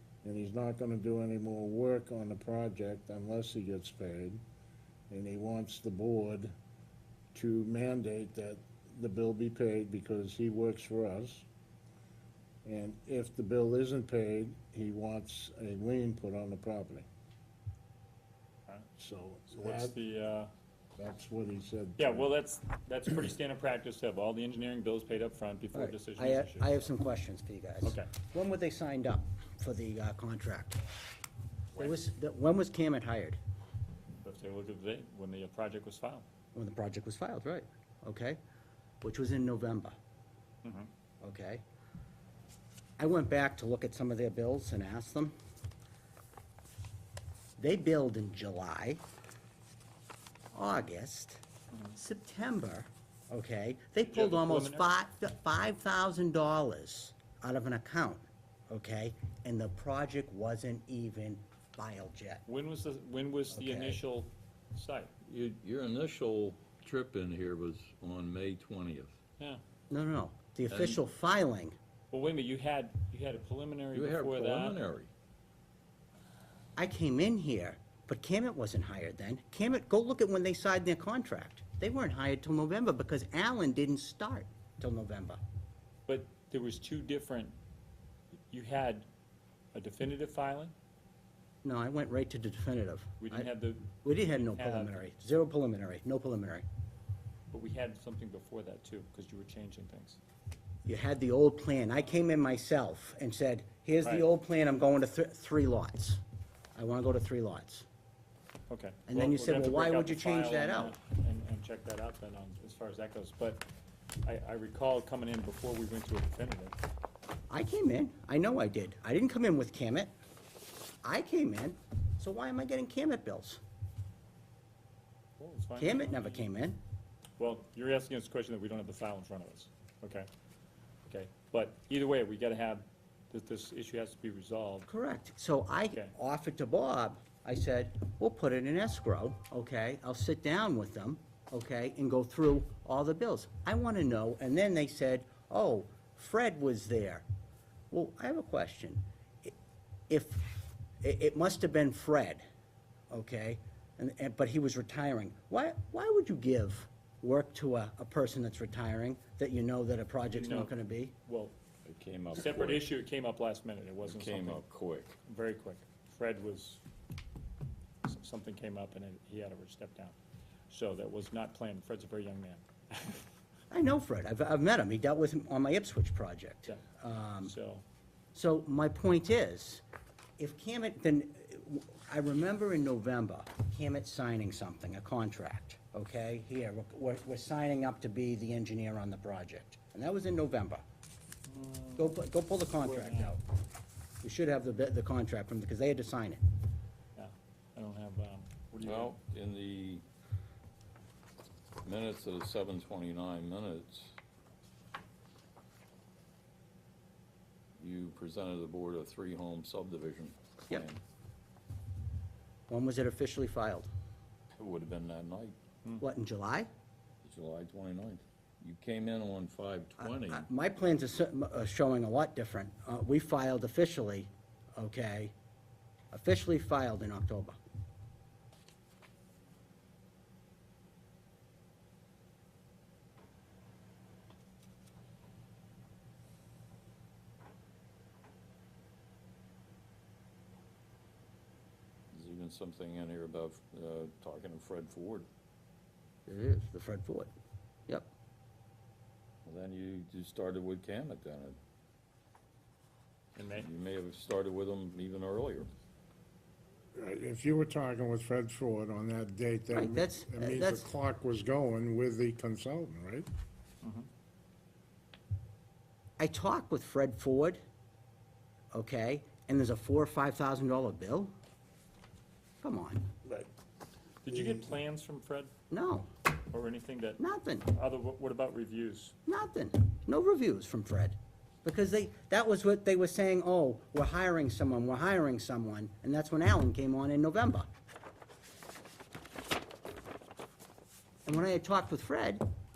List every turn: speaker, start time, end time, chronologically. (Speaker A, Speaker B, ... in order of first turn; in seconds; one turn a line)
Speaker A: 0.2-4.4
Speaker A: 5.1-6.5
Speaker A: 7.3-11.5
Speaker A: 12.7-17.1
Speaker A: 19.0-19.9
Speaker B: 19.5-20.5
Speaker A: 21.0-22.3
Speaker B: 22.0-26.9
Speaker C: 25.7-30.8
Speaker C: 31.8-33.4
Speaker B: 34.2-36.3
Speaker C: 36.5-38.4
Speaker C: 39.0-40.0
Speaker B: 40.6-40.9
Speaker C: 41.2-41.6
Speaker C: 43.0-45.3
Speaker C: 47.6-49.0
Speaker C: 50.5-51.4
Speaker C: 52.0-62.5
Speaker B: 54.0-55.0
Speaker B: 62.5-65.1
Speaker C: 63.5-64.0
Speaker D: 65.3-69.2
Speaker C: 69.9-71.8
Speaker D: 70.7-71.0
Speaker B: 72.1-74.8
Speaker D: 73.9-75.1
Speaker C: 76.8-85.4
Speaker B: 86.1-87.5
Speaker B: 88.5-89.1
Speaker B: 89.7-90.7
Speaker C: 91.6-93.5
Speaker B: 93.2-95.0
Speaker C: 94.0-96.7
Speaker B: 97.5-100.2
Speaker C: 100.8-106.2
Speaker B: 104.0-104.3
Speaker C: 106.8-107.9
Speaker B: 108.7-113.7
Speaker C: 109.1-111.0
Speaker B: 114.2-116.8
Speaker C: 117.5-120.1
Speaker C: 121.0-123.6
Speaker B: 125.4-126.5
Speaker C: 125.8-126.8
Speaker B: 127.4-130.3
Speaker B: 131.1-134.9
Speaker C: 134.9-147.2
Speaker C: 147.9-149.5
Speaker C: 150.1-152.4
Speaker C: 153.1-161.1
Speaker B: 160.3-160.7
Speaker B: 161.2-161.6
Speaker D: 161.8-162.9
Speaker B: 162.3-164.6
Speaker D: 164.1-165.2
Speaker B: 165.3-166.8
Speaker B: 168.1-170.2
Speaker B: 170.7-173.2
Speaker C: 173.7-177.5
Speaker B: 177.4-177.8
Speaker C: 178.3-179.8
Speaker C: 180.4-190.8
Speaker B: 191.5-192.2
Speaker C: 192.0-193.4
Speaker B: 192.8-193.4
Speaker C: 194.2-196.4
Speaker B: 197.2-199.2
Speaker D: 198.8-200.0
Speaker D: 201.8-204.2
Speaker D: 207.8-211.0
Speaker C: 212.7-213.9
Speaker D: 214.6-215.6
Speaker C: 216.0-216.7
Speaker D: 217.2-220.5
Speaker C: 220.0-225.3
Speaker C: 226.1-227.6
Speaker D: 242.1-245.3
Speaker C: 246.3-247.3
Speaker D: 249.4-251.6
Speaker B: 253.4-253.7
Speaker D: 253.5-255.7
Speaker A: 256.9-263.3
Speaker C: 259.7-260.9
Speaker C: 266.2-267.6
Speaker C: 268.7-271.3
Speaker C: 272.6-273.1
Speaker B: 274.2-275.5
Speaker C: 275.7-276.1
Speaker B: 276.5-279.1
Speaker C: 277.2-277.7
Speaker C: 279.3-287.7
Speaker C: 291.3-292.4